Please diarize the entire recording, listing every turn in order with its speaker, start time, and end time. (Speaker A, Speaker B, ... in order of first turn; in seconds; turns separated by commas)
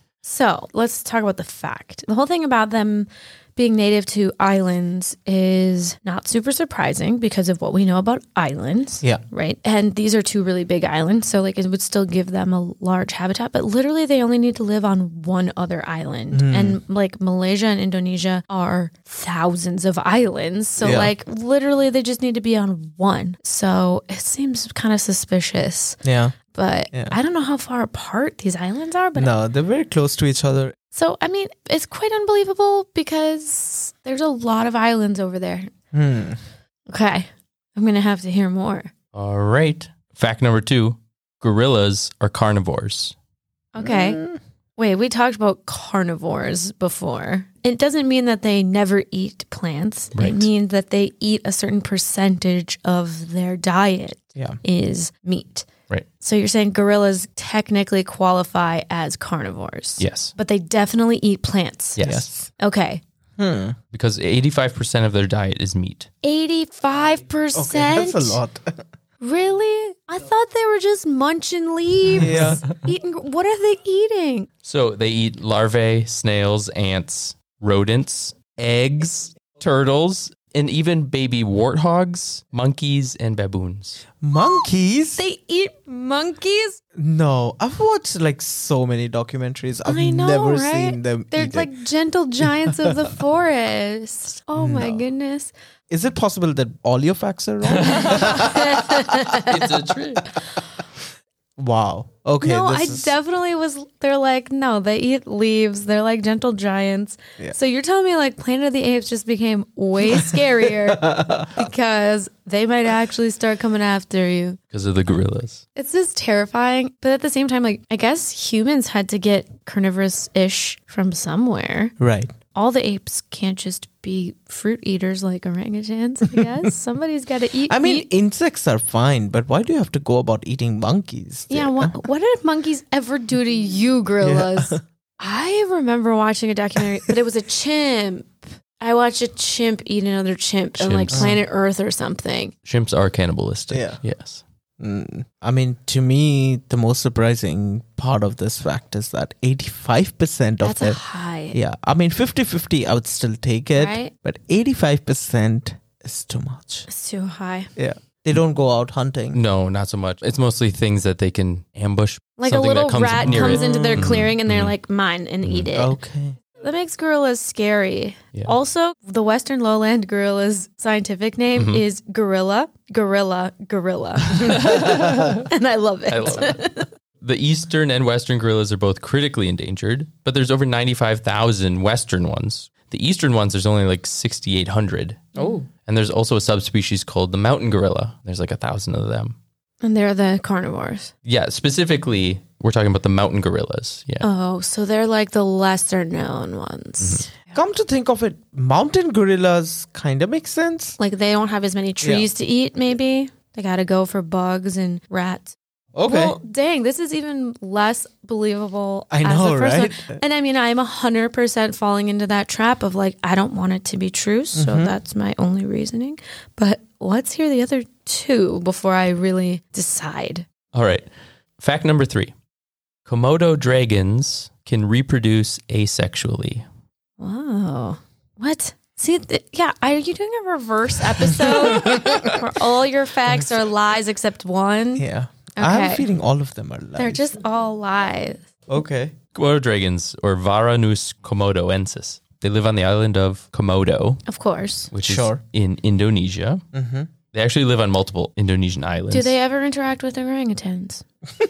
Speaker A: 0.2-26.0, Speaker B: 16.3-16.8, Speaker B: 20.8-21.1, Speaker B: 26.0-26.3, Speaker A: 26.5-29.4, Speaker B: 29.1-30.7, Speaker A: 30.9-35.7, Speaker B: 35.9-36.4, Speaker A: 36.9-38.9, Speaker C: 39.1-43.1, Speaker A: 43.7-44.2, Speaker B: 43.8-44.4, Speaker A: 44.8-55.7, Speaker C: 50.1-50.5, Speaker A: 56.2-62.0, Speaker C: 60.0-60.3, Speaker C: 62.0-62.3, Speaker B: 62.0-62.5, Speaker A: 62.6-63.0, Speaker B: 63.4-63.8, Speaker C: 63.9-66.1, Speaker A: 66.2-68.4, Speaker B: 67.5-68.8, Speaker A: 69.2-74.5, Speaker B: 72.2-72.6, Speaker C: 74.6-84.0, Speaker B: 84.2-85.2, Speaker A: 85.2-86.8, Speaker B: 87.0-91.7, Speaker A: 89.8-95.5, Speaker B: 92.4-93.0, Speaker B: 94.6-95.0, Speaker B: 95.9-99.0, Speaker C: 97.6-98.4, Speaker A: 98.1-99.7, Speaker C: 99.3-100.3, Speaker B: 101.6-103.1, Speaker A: 102.4-114.6, Speaker B: 110.1-111.5, Speaker C: 114.7-115.6, Speaker A: 115.8-121.9, Speaker B: 122.0-122.3, Speaker A: 122.5-128.1, Speaker B: 127.7-132.0, Speaker A: 131.5-142.5, Speaker B: 134.2-134.8, Speaker C: 140.8-141.3, Speaker B: 141.1-141.4, Speaker C: 142.6-144.4, Speaker B: 143.7-144.0, Speaker B: 144.8-151.0, Speaker A: 150.6-151.5, Speaker B: 151.5-156.9, Speaker A: 153.7-154.1, Speaker A: 156.9-157.7, Speaker B: 157.8-159.4, Speaker C: 159.3-164.7, Speaker A: 162.4-166.0, Speaker B: 163.2-164.2, Speaker C: 165.4-165.7, Speaker B: 165.7-166.4, Speaker A: 166.6-176.9, Speaker C: 171.5-171.8, Speaker C: 174.4-175.5, Speaker B: 174.6-174.9, Speaker C: 176.1-176.6, Speaker C: 177.2-189.3, Speaker B: 185.4-185.7, Speaker A: 189.8-191.1, Speaker C: 191.2-194.3, Speaker A: 194.2-197.6, Speaker C: 197.0-197.2, Speaker B: 197.5-201.0, Speaker A: 201.0-220.4, Speaker B: 202.0-202.3, Speaker B: 205.9-206.4, Speaker B: 209.1-210.2, Speaker B: 214.5-214.9, Speaker C: 220.7-221.1, Speaker C: 221.6-222.3, Speaker C: 223.1-226.7, Speaker A: 227.2-235.1, Speaker B: 235.0-237.2, Speaker A: 235.6-236.1, Speaker A: 237.0-238.5, Speaker B: 238.7-239.1, Speaker C: 239.3-244.2, Speaker A: 244.3-244.9, Speaker C: 244.9-246.6, Speaker B: 245.0-245.4, Speaker B: 246.7-247.1, Speaker C: 247.3-249.3, Speaker A: 249.1-251.0